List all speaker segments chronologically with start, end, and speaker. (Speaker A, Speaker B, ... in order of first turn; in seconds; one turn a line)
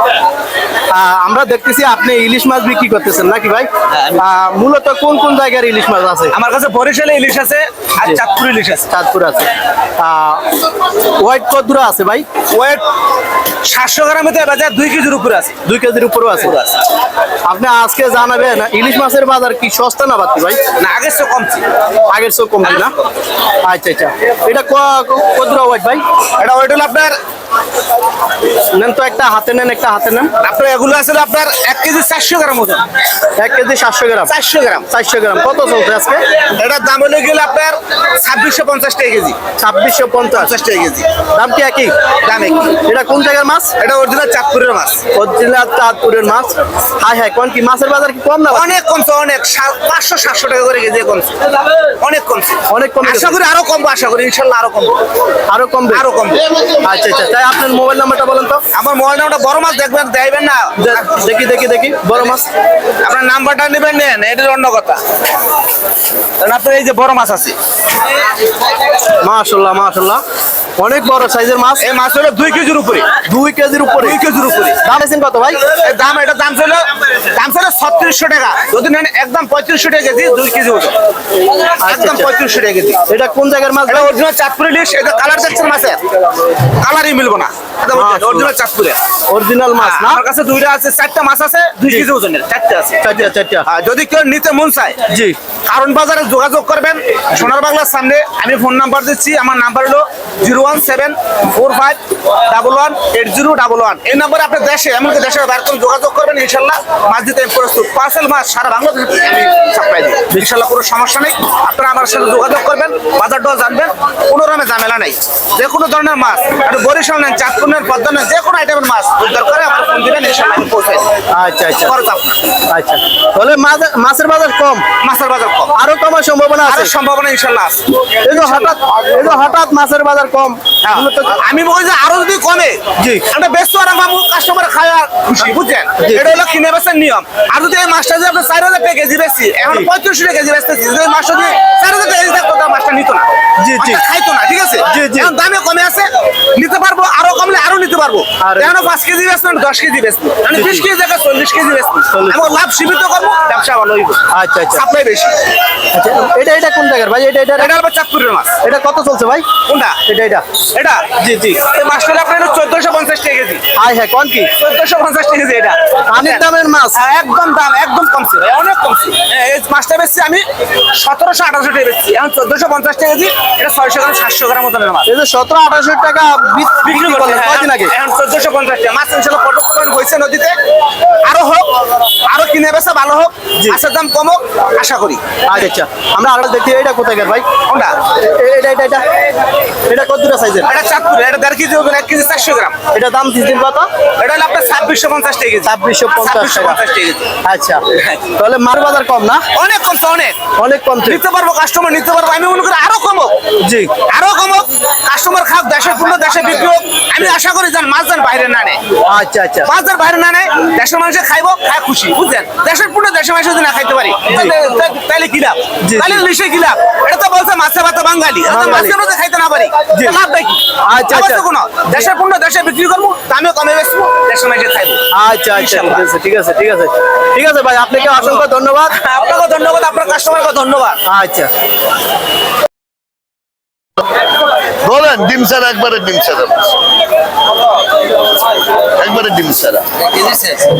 Speaker A: 0.9-6.3
Speaker B: 3.9-4.2
Speaker B: 6.3-8.9
Speaker A: 8.9-10.5
Speaker A: 11.2-12.3
Speaker B: 12.5-12.8
Speaker B: 13.6-15.6
Speaker A: 15.6-16.5
Speaker B: 16.4-16.8
Speaker A: 17.5-20.6
Speaker B: 20.8-21.6
Speaker A: 22.1-22.9
Speaker B: 22.6-23.1
Speaker A: 23.6-26.0
Speaker B: 26.4-27.1
Speaker A: 28.7-30.3
Speaker B: 30.4-32.9
Speaker A: 33.4-34.3
Speaker B: 34.3-34.9
Speaker A: 34.9-36.2
Speaker B: 36.4-39.4
Speaker A: 39.6-40.5
Speaker B: 40.3-41.1
Speaker A: 41.3-41.9
Speaker B: 42.2-42.8
Speaker A: 42.7-43.7
Speaker B: 43.8-45.0
Speaker A: 45.1-48.7
Speaker B: 48.5-55.0
Speaker A: 52.7-53.4
Speaker A: 55.5-56.0
Speaker B: 55.9-56.4
Speaker A: 56.7-58.6
Speaker B: 58.7-61.2
Speaker A: 60.8-62.5
Speaker B: 62.1-62.4
Speaker B: 63.0-65.0
Speaker B: 66.4-67.6
Speaker A: 69.2-70.2
Speaker A: 70.8-71.9
Speaker B: 71.8-73.2
Speaker A: 73.2-74.2
Speaker B: 74.0-74.8
Speaker A: 74.8-75.6
Speaker B: 75.7-81.0
Speaker A: 81.8-82.3
Speaker B: 81.8-83.0
Speaker A: 83.1-84.1
Speaker B: 83.9-86.0
Speaker B: 86.6-89.0
Speaker A: 87.9-88.5
Speaker A: 89.3-90.2
Speaker B: 89.8-95.0
Speaker A: 93.0-93.6
Speaker A: 95.1-95.3
Speaker B: 95.7-121.1
Speaker A: 121.3-121.9
Speaker B: 121.7-122.5
Speaker A: 122.7-124.8
Speaker B: 125.0-125.7
Speaker A: 125.7-126.9
Speaker B: 126.7-128.8
Speaker A: 128.2-131.4
Speaker B: 130.8-155.4
Speaker A: 133.0-133.2
Speaker A: 136.0-136.4
Speaker A: 143.6-144.0
Speaker A: 144.8-145.3
Speaker A: 148.4-148.9
Speaker A: 150.5-150.8
Speaker A: 152.1-152.6
Speaker A: 154.3-154.8
Speaker A: 155.9-157.7
Speaker B: 157.6-158.6
Speaker A: 158.6-159.5
Speaker B: 159.6-160.0
Speaker A: 160.0-160.4
Speaker B: 160.7-163.7
Speaker A: 161.2-161.6
Speaker A: 163.8-164.5
Speaker B: 164.6-175.1
Speaker A: 166.1-167.0
Speaker A: 175.1-177.9
Speaker B: 176.8-180.6
Speaker B: 181.2-185.2
Speaker A: 185.5-187.5
Speaker B: 187.7-188.0
Speaker A: 188.1-189.0
Speaker A: 189.8-190.8
Speaker B: 190.7-192.8
Speaker A: 192.9-193.9
Speaker B: 194.2-197.3
Speaker A: 195.6-196.8
Speaker A: 197.4-197.8
Speaker B: 197.9-198.3
Speaker A: 198.3-199.4
Speaker B: 199.5-200.4
Speaker A: 200.6-201.2
Speaker B: 201.0-203.4
Speaker A: 203.6-203.9
Speaker B: 204.0-208.8
Speaker A: 209.1-209.7
Speaker B: 209.6-226.1
Speaker A: 214.3-214.5
Speaker A: 215.8-216.2
Speaker A: 218.5-218.9
Speaker A: 219.9-220.2
Speaker A: 220.8-221.4
Speaker A: 225.1-228.9
Speaker B: 228.9-231.0
Speaker A: 231.1-231.5
Speaker C: 234.8-236.7
Speaker C: 239.0-240.6